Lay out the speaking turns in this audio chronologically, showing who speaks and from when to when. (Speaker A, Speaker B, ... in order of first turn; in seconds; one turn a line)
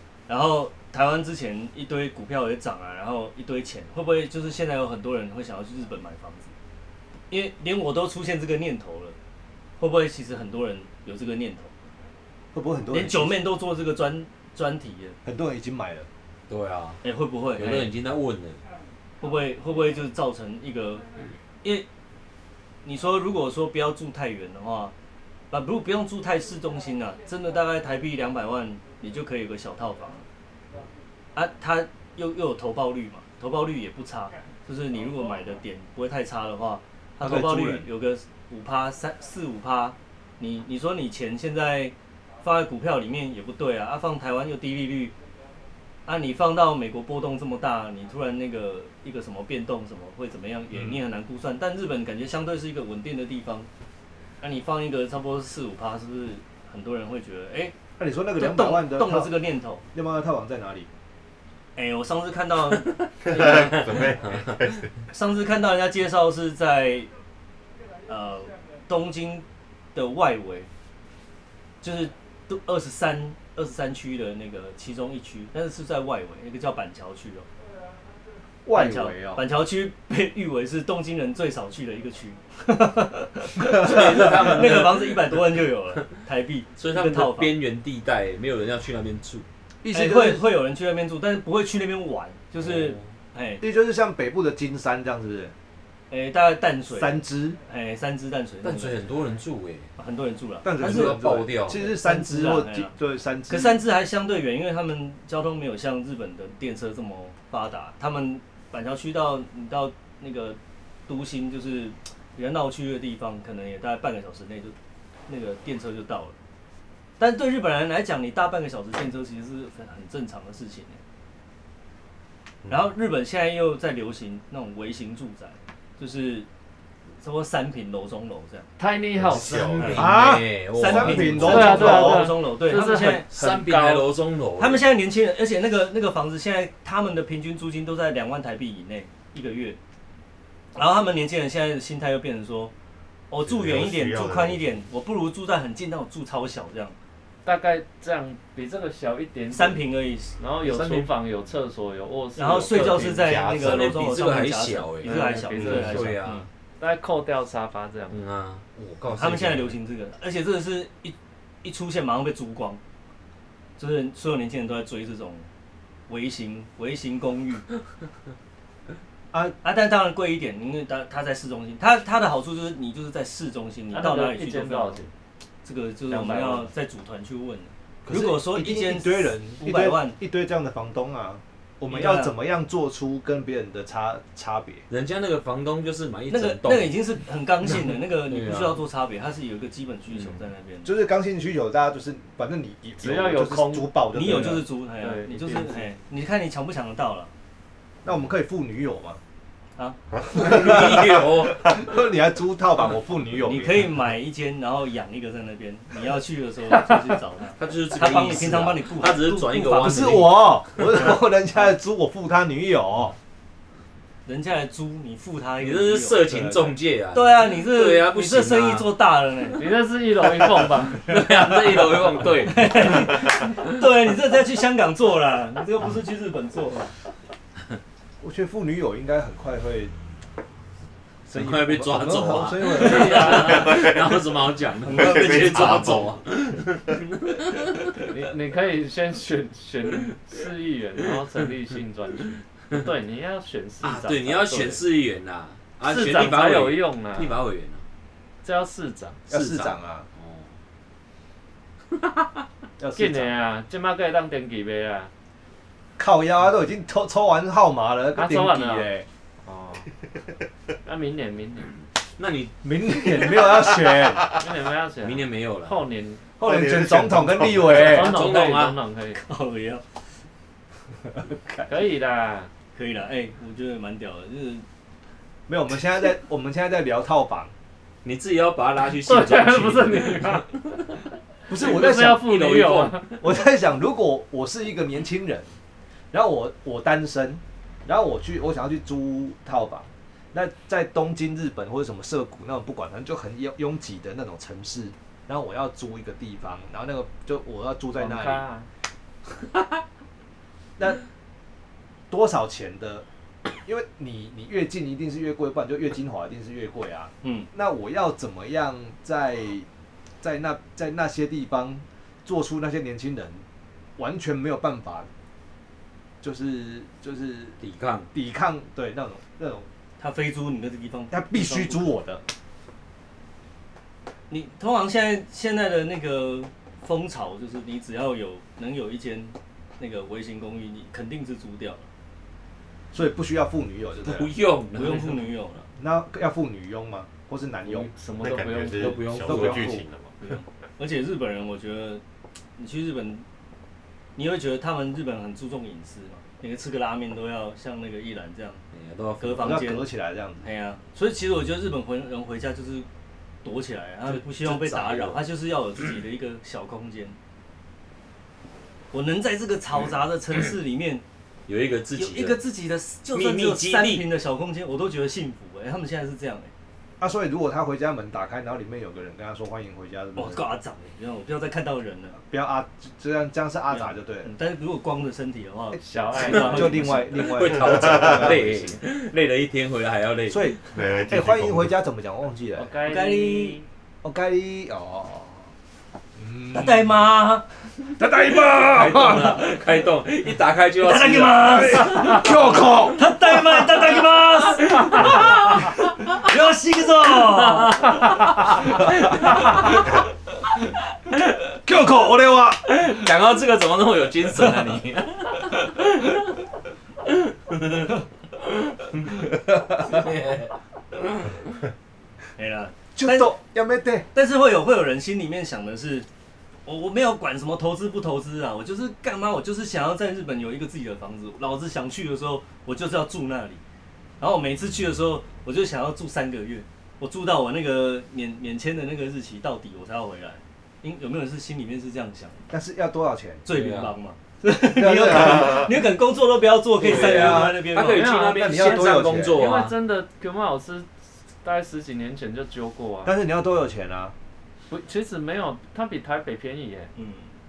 Speaker A: 0.3-6.5
Speaker A: 7.3-9.2
Speaker A: 9.8-11.7
Speaker B: 12.5-13.4
Speaker A: 12.9-15.2
Speaker B: 15.2-16.1
Speaker C: 16.5-17.0
Speaker A: 17.0-17.9
Speaker C: 17.6-18.6
Speaker A: 19.2-21.1
Speaker A: 22.8-24.9
Speaker A: 25.5-30.2
Speaker A: 31.4-45.1
Speaker B: 37.2-37.9
Speaker A: 46.0-53.7
Speaker A: 54.4-57.7
Speaker B: 58.0-59.4
Speaker A: 58.4-59.8
Speaker B: 59.9-60.9
Speaker A: 61.8-64.0
Speaker D: 63.2-65.0
Speaker A: 65.1-67.1
Speaker A: 68.1-70.7
Speaker A: 71.8-77.5
Speaker B: 78.6-79.4
Speaker A: 78.7-87.5
Speaker C: 83.6-85.4
Speaker C: 86.8-89.5
Speaker B: 89.8-90.4
Speaker A: 89.9-93.6
Speaker C: 92.6-93.0
Speaker B: 93.6-95.5
Speaker A: 96.1-99.1
Speaker B: 96.9-97.6
Speaker C: 98.6-99.9
Speaker A: 100.0-101.2
Speaker B: 100.6-103.8
Speaker C: 100.8-101.8
Speaker A: 101.7-102.9
Speaker A: 103.5-114.8
Speaker A: 115.3-116.4
Speaker A: 117.2-121.0
Speaker A: 122.7-126.5
Speaker A: 127.2-128.7
Speaker E: 128.8-130.1
Speaker D: 129.1-130.1
Speaker C: 129.8-132.0
Speaker B: 129.8-132.3
Speaker A: 130.7-133.2
Speaker E: 131.4-134.1
Speaker C: 133.3-134.8
Speaker A: 134.6-139.8
Speaker A: 140.8-142.7
Speaker A: 143.3-146.9
Speaker D: 143.4-144.6
Speaker E: 147.4-149.8
Speaker A: 149.5-150.4
Speaker E: 150.4-153.3
Speaker C: 150.6-151.1
Speaker A: 152.4-156.5
Speaker C: 152.8-156.4
Speaker E: 155.0-156.2
Speaker E: 156.8-158.2
Speaker C: 158.1-159.8
Speaker A: 159.1-162.8
Speaker A: 163.8-165.5
Speaker A: 166.1-167.7
Speaker A: 169.6-175.0
Speaker E: 173.9-175.1
Speaker A: 175.6-180.2
Speaker E: 176.1-176.7
Speaker B: 178.0-184.8
Speaker A: 181.9-182.3
Speaker C: 184.9-187.1
Speaker A: 186.3-190.9
Speaker C: 187.9-188.8
Speaker B: 190.8-194.6
Speaker E: 193.0-195.9
Speaker A: 194.1-197.3
Speaker B: 198.0-199.2
Speaker C: 200.3-201.8
Speaker B: 200.3-203.9
Speaker A: 203.4-210.2
Speaker C: 207.6-210.7
Speaker B: 209.8-213.2
Speaker A: 214.2-216.5
Speaker C: 215.6-218.9
Speaker A: 217.1-219.7
Speaker E: 219.5-221.1
Speaker C: 221.0-223.6
Speaker A: 222.4-226.9
Speaker B: 228.2-229.9
Speaker B: 231.3-233.6
Speaker C: 231.3-238.0
Speaker E: 232.7-233.9
Speaker A: 232.8-233.7
Speaker D: 233.5-234.1
Speaker A: 234.8-236.1
Speaker D: 234.9-236.2
Speaker E: 238.1-244.8
Speaker C: 243.8-247.8
Speaker E: 245.8-247.4
Speaker E: 248.4-249.2
Speaker B: 249.3-250.1
Speaker C: 249.3-250.5
Speaker C: 251.9-252.4
Speaker B: 252.8-253.3
Speaker E: 253.0-255.1
Speaker B: 256.0-259.1
Speaker E: 258.1-258.9
Speaker E: 259.4-259.9
Speaker E: 260.8-261.8
Speaker C: 262.2-263.5
Speaker B: 262.6-264.2
Speaker E: 264.3-266.3
Speaker C: 265.0-265.8
Speaker B: 266.4-268.2
Speaker D: 266.4-267.7
Speaker C: 267.6-268.8
Speaker E: 267.7-269.2
Speaker A: 269.1-269.8
Speaker B: 271.1-271.7
Speaker E: 271.7-272.5
Speaker A: 272.8-274.6
Speaker B: 275.5-277.5
Speaker C: 278.0-280.9
Speaker E: 279.0-280.5
Speaker B: 281.5-282.3
Speaker E: 281.6-283.2
Speaker C: 282.1-283.1
Speaker B: 283.2-285.5
Speaker B: 286.1-298.4
Speaker E: 298.0-298.7
Speaker B: 302.1-303.0
Speaker B: 303.7-309.7
Speaker A: 307.2-307.5
Speaker B: 310.2-313.4
Speaker B: 314.0-315.1
Speaker B: 316.2-317.6
Speaker C: 317.6-318.1
Speaker B: 318.1-319.7
Speaker A: 320.0-321.9
Speaker B: 321.1-322.2
Speaker A: 324.3-331.9
Speaker B: 332.9-334.3
Speaker C: 334.0-335.3
Speaker A: 334.8-335.7
Speaker B: 335.8-337.9
Speaker E: 337.6-339.3
Speaker D: 338.2-340.1
Speaker C: 338.8-339.8
Speaker B: 339.2-339.8
Speaker A: 340.2-342.0
Speaker A: 342.6-343.2
Speaker A: 344.2-348.6
Speaker C: 348.7-349.6
Speaker A: 349.2-349.9
Speaker B: 349.4-350.5
Speaker A: 350.4-352.9
Speaker A: 353.4-357.2
Speaker C: 354.1-355.2
Speaker A: 358.9-361.0
Speaker C: 361.5-362.4
Speaker A: 362.0-366.5
Speaker C: 363.1-364.0
Speaker B: 367.0-370.4
Speaker A: 370.1-372.2
Speaker B: 372.2-374.3
Speaker A: 373.7-377.1
Speaker B: 375.7-378.8
Speaker E: 375.8-376.9
Speaker C: 377.1-380.6
Speaker D: 377.6-378.1
Speaker B: 380.3-382.7
Speaker D: 380.7-381.7
Speaker E: 382.5-383.7
Speaker A: 382.9-383.6
Speaker B: 384.0-385.5
Speaker B: 386.2-386.9
Speaker A: 386.5-387.5
Speaker B: 388.0-389.5
Speaker C: 388.5-392.8
Speaker A: 390.8-397.9
Speaker B: 391.6-393.0
Speaker C: 394.7-396.2
Speaker C: 397.1-400.0
Speaker C: 401.1-401.3
Speaker B: 401.6-402.7
Speaker C: 402.7-406.2
Speaker C: 407.1-407.9
Speaker C: 408.7-411.4
Speaker A: 412.4-413.3
Speaker B: 412.9-414.1
Speaker A: 414.1-416.1
Speaker A: 416.7-423.6
Speaker A: 424.2-432.5
Speaker B: 432.5-433.5
Speaker A: 433.5-438.1
Speaker C: 433.5-433.9
Speaker B: 434.7-435.8
Speaker C: 436.8-439.8
Speaker B: 436.8-439.4
Speaker E: 437.9-440.9
Speaker E: 441.4-443.1
Speaker B: 443.0-444.1
Speaker E: 444.7-446.9
Speaker A: 447.0-447.3